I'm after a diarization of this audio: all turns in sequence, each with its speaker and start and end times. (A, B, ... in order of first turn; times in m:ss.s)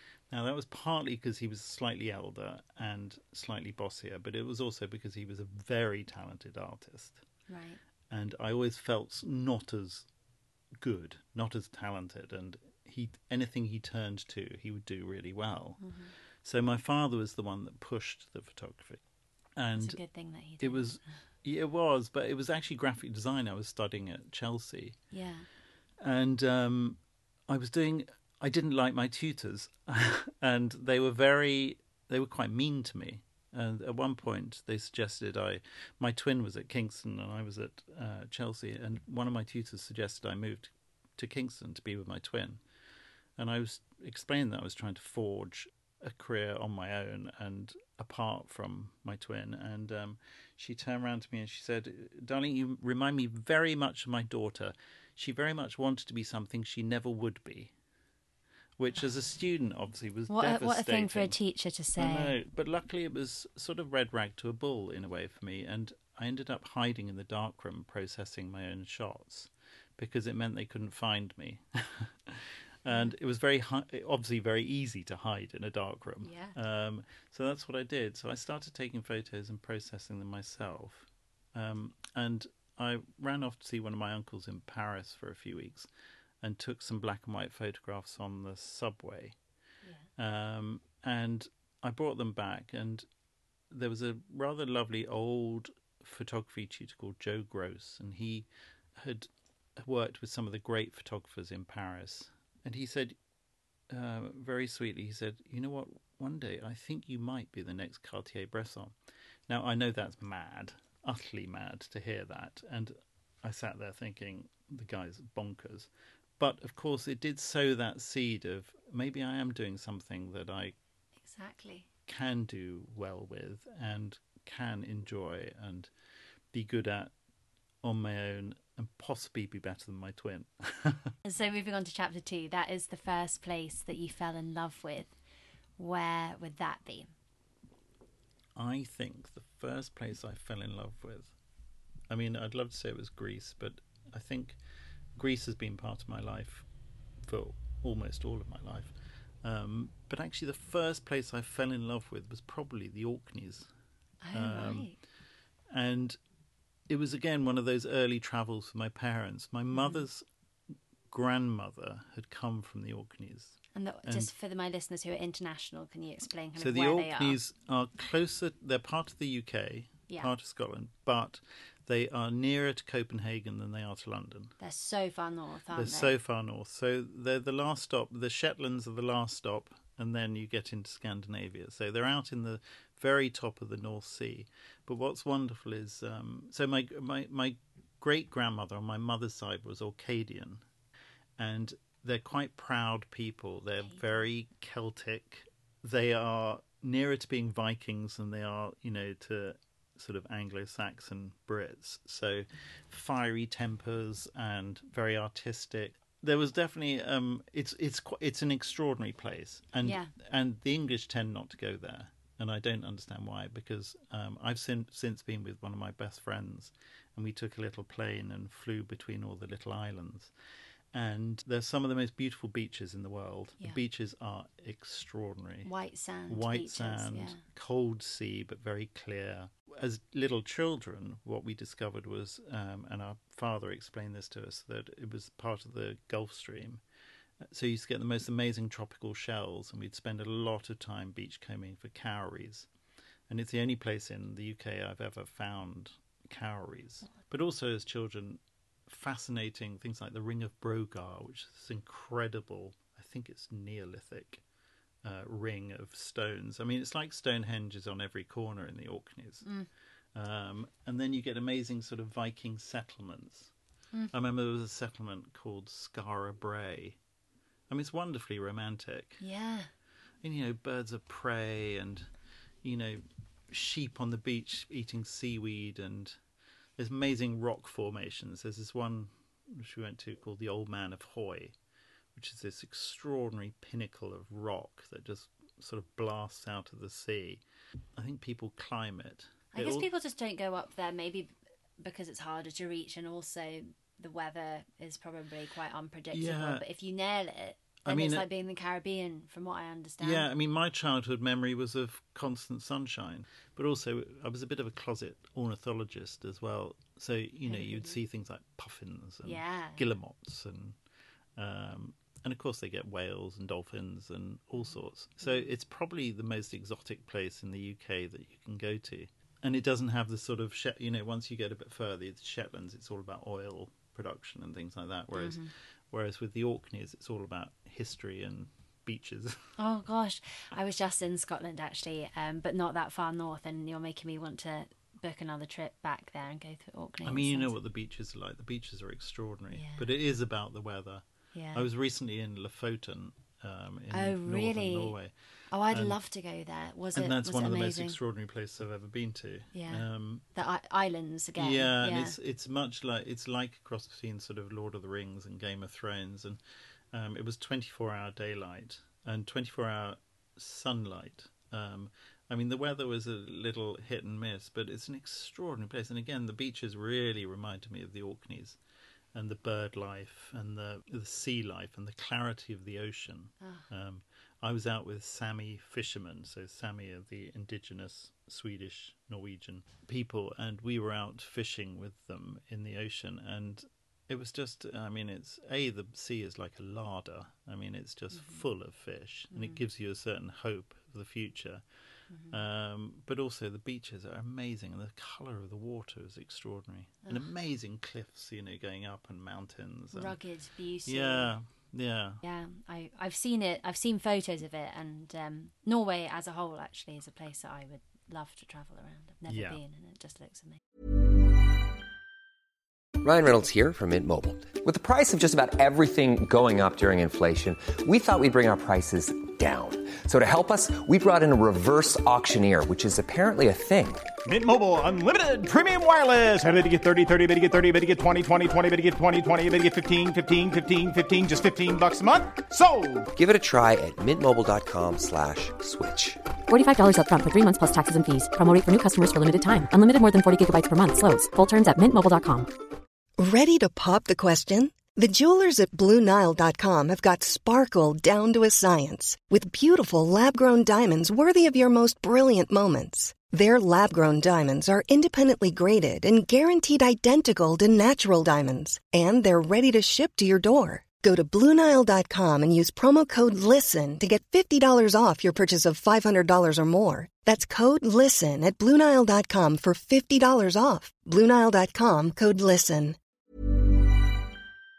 0:00.3-0:07.2 A
0:07.5-0:07.8 B
0:08.1-0:10.1 A
0:10.8-0:15.8 A
0:15.8-0:16.1 B
0:16.4-0:19.0 A
0:19.6-0:20.0 A
0:19.8-0:20.9 B
0:20.6-0:25.0 A
0:25.1-0:25.5 B
0:26.0-0:42.6 A
0:43.4-0:57.7 A
0:58.8-1:01.4 A
1:00.3-1:02.4 B
1:02.0-1:25.9 A
1:16.2-1:16.6 B
1:26.4-1:29.4 A
1:30.2-1:33.1 A
1:33.7-1:43.2 A
1:43.9-1:49.0 A
1:49.5-2:00.8 A
2:01.2-2:01.9 B
2:02.1-2:05.9 A
2:06.5-2:07.1 A
2:07.8-2:11.1 A
2:11.2-2:15.1 B
2:15.8-2:17.1 B
2:18.6-2:21.3 A
2:22.1-2:24.6 A
2:25.2-2:26.7 A
2:27.2-2:33.7 A
2:34.2-2:35.0 B
2:34.3-2:34.9 A
2:35.7-2:36.2 A
2:36.9-2:40.3 A
2:39.8-2:40.0 B
2:41.1-2:44.3 A
2:43.7-2:47.4 B
2:46.6-2:54.6 A
2:54.6-2:56.1 B
2:55.7-3:10.6 A
3:11.4-3:40.3 A
3:29.8-3:30.1 B
3:40.9-3:45.7 A
3:45.6-3:47.4 B
3:46.3-3:56.8 A
3:57.4-4:02.7 A
4:03.3-4:14.4 A
4:15.0-4:19.5 A
4:19.4-4:19.7 B
4:20.2-4:23.5 A
4:24.1-4:27.0 A
4:27.7-4:29.2 A
4:29.2-4:29.7 B
4:30.2-4:32.1 A
4:32.6-4:36.2 A
4:36.8-4:41.5 A
4:42.2-4:47.4 A
4:48.0-4:49.9 A
4:49.5-5:00.3 B
4:56.1-4:56.6 A
4:57.8-4:58.3 A
5:00.0-5:10.8 A
5:07.5-5:08.0 B
5:09.2-5:09.8 B
5:11.4-5:29.4 A
5:15.2-5:15.5 B
5:25.2-5:25.5 B
5:29.6-5:37.6 B
5:37.0-5:45.1 A
5:39.5-5:39.8 B
5:41.3-5:41.7 B
5:43.9-5:45.0 B
5:45.5-5:48.0 B
5:45.7-5:46.0 A
5:47.0-5:50.2 A
5:49.5-5:52.2 B
5:51.4-5:56.4 A
5:56.9-6:08.6 A
6:09.1-6:31.6 A
6:13.4-6:13.7 B
6:28.1-6:28.4 B
6:29.3-6:29.6 B
6:32.1-6:32.4 B
6:32.3-6:40.2 A
6:39.9-6:41.3 B
6:40.9-6:42.2 A
6:42.2-6:50.6 B
6:49.3-6:49.6 A
6:53.0-7:04.1 C
7:04.3-7:13.1 D
7:13.2-7:16.2 C
7:16.5-7:22.5 E
7:23.2-7:53.0 F